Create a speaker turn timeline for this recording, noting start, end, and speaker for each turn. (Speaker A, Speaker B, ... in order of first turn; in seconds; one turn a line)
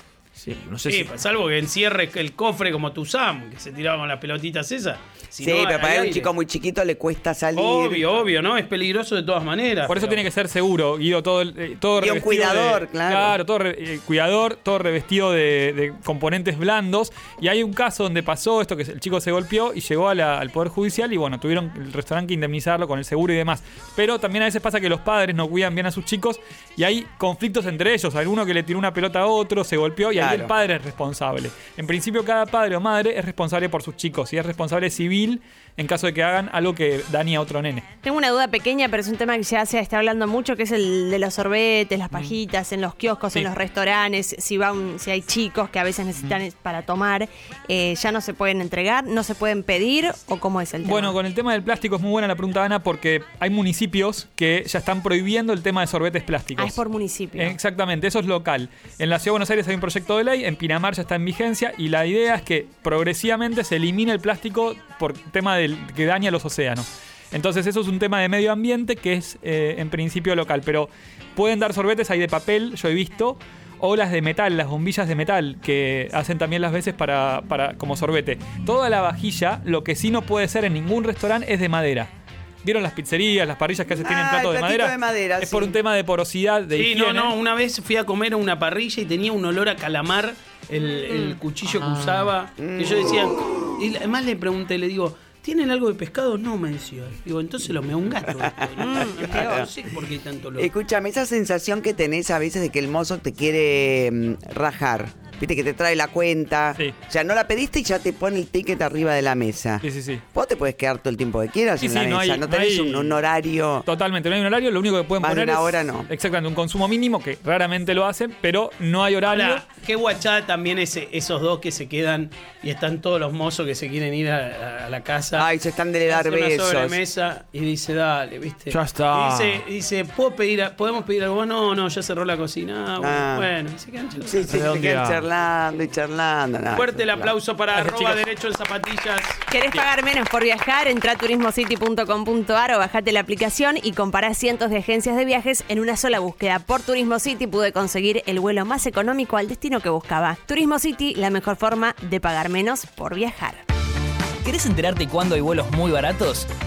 Speaker A: 0.4-1.1
Speaker B: 0.9-6.3
Speaker C: 5.4-8.3
Speaker B: 7.5-10.2
Speaker D: 9.9-37.9
Speaker C: 12.0-13.4
Speaker C: 30.1-30.5
Speaker E: 38.0-51.2
Speaker D: 50.8-56.8
Speaker E: 56.6-57.6
Speaker D: 57.4-82.1
Speaker D: 82.6-87.4
Speaker C: 84.0-85.8
Speaker B: 86.8-100.7
Speaker A: 92.0-92.3
Speaker C: 92.6-93.2
Speaker C: 98.4-99.7
Speaker E: 98.8-99.6
Speaker C: 100.6-113.9
Speaker D: 109.8-110.2
Speaker D: 111.8-113.2
Speaker D: 113.8-119.7
Speaker C: 115.2-116.1
Speaker B: 119.3-125.5
Speaker C: 125.4-127.0
Speaker B: 126.1-134.7
Speaker A: 128.7-129.6
Speaker C: 133.0-133.5
Speaker C: 134.3-137.3
Speaker A: 134.5-135.3
Speaker B: 136.7-139.4
Speaker D: 137.7-138.2
Speaker E: 139.5-153.6
Speaker F: 154.4-156.5